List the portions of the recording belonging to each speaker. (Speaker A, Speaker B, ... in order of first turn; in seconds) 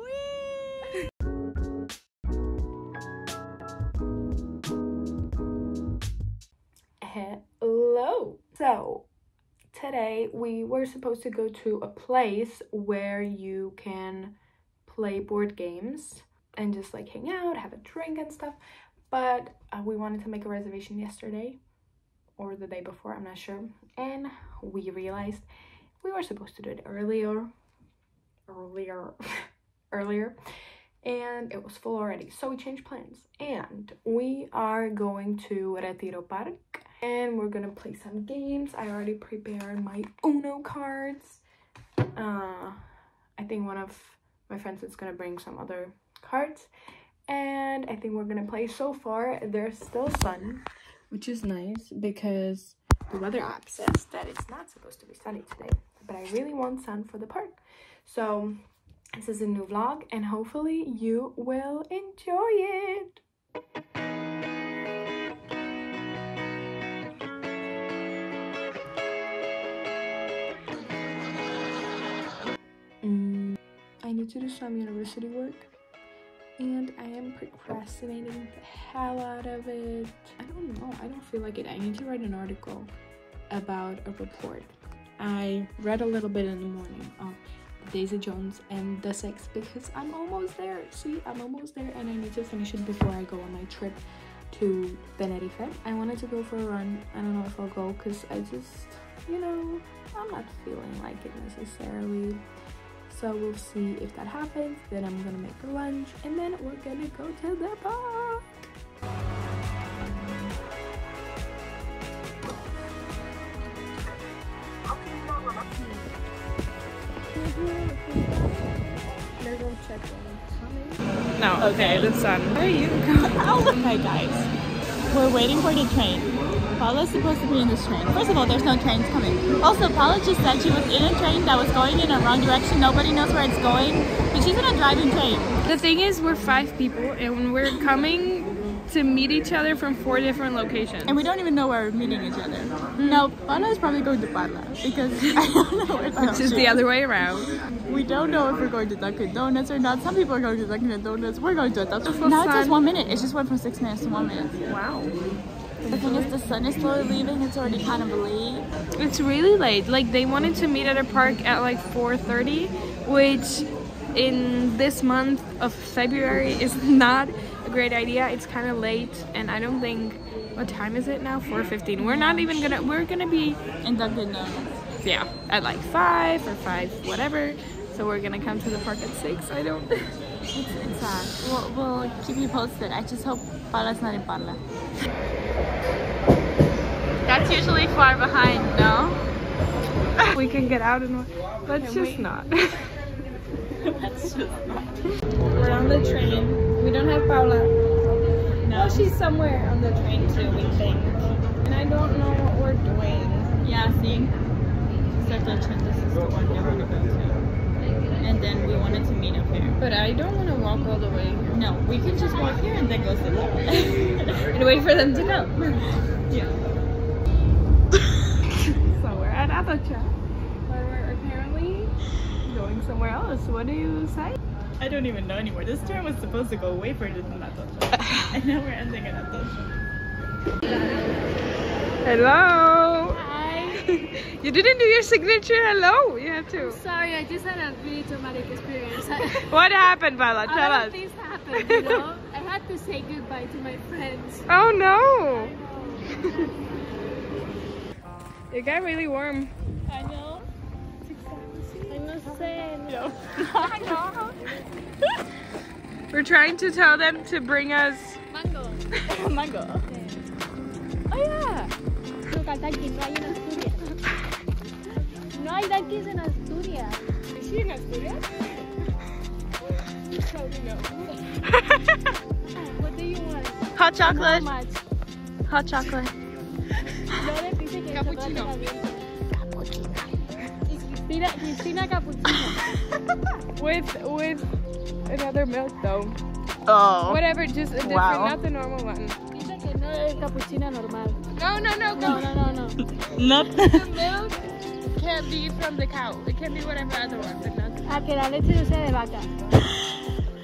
Speaker A: 0.2-0.7, 121.6-122.2, 123.2-124.5, 125.1-135.6, 141.1-146.8, 147.9-154.6, 155.9-158.7, 172.0-172.6, 173.8-174.8, 180.5-184.6, 187.2-189.2, 191.7-192.2, 193.8-194.9, 198.6-199.1, 203.6-204.3, 205.1-207.5, 208.2-209.8, 211.5-214.3, 216.3-216.6, 224.8-229.6, 249.9-250.4, 252.8-254.1, 259.1-259.8, 273.8-274.5, 275.5-276.1, 286.7-287.2, 287.8-288.4, 293.1-293.8
Speaker B: 7.0-9.1, 9.7-18.6, 19.1-21.6, 22.4-25.5, 26.0-27.5, 28.5-30.4, 31.0-41.4, 42.1-46.7, 47.3-58.6, 59.1-63.2, 73.0-75.7, 76.6-82.9, 83.5-102.4, 103.1-108.5, 114.9-116.1, 119.4-121.0, 170.7-171.4, 191.8-192.5, 219.0-219.3, 222.5-223.5
Speaker C: 121.3-123.8, 135.6-141.2, 146.2-147.6, 152.4-152.7, 155.8-156.3, 159.0-170.1, 170.9-173.6, 175.0-180.1, 190.3-192.3, 195.5-197.7, 198.7-203.6, 209.8-211.5, 214.5-215.9, 220.7-221.9, 223.7-224.4, 232.0-233.2, 233.9-236.8, 239.5-241.0, 241.5-242.1, 244.5-245.6, 246.2-246.5, 248.5-249.5, 251.0-252.0, 256.1-258.2, 261.1-261.7, 267.3-268.3, 277.9-278.5, 279.6-279.9, 283.5-284.5, 285.1-286.2, 287.0-289.1, 291.3-292.3, 294.9-298.0
Speaker D: 233.1-233.9, 236.5-239.6, 240.4-244.5, 245.4-246.1, 251.9-253.0, 253.6-254.1, 258.3-258.9, 262.2-263.9, 265.3-267.0, 270.1-271.0, 272.7-274.8, 277.1-279.1, 280.7-282.6, 289.3-291.2, 291.9-292.8, 293.5-294.4, 297.8-299.3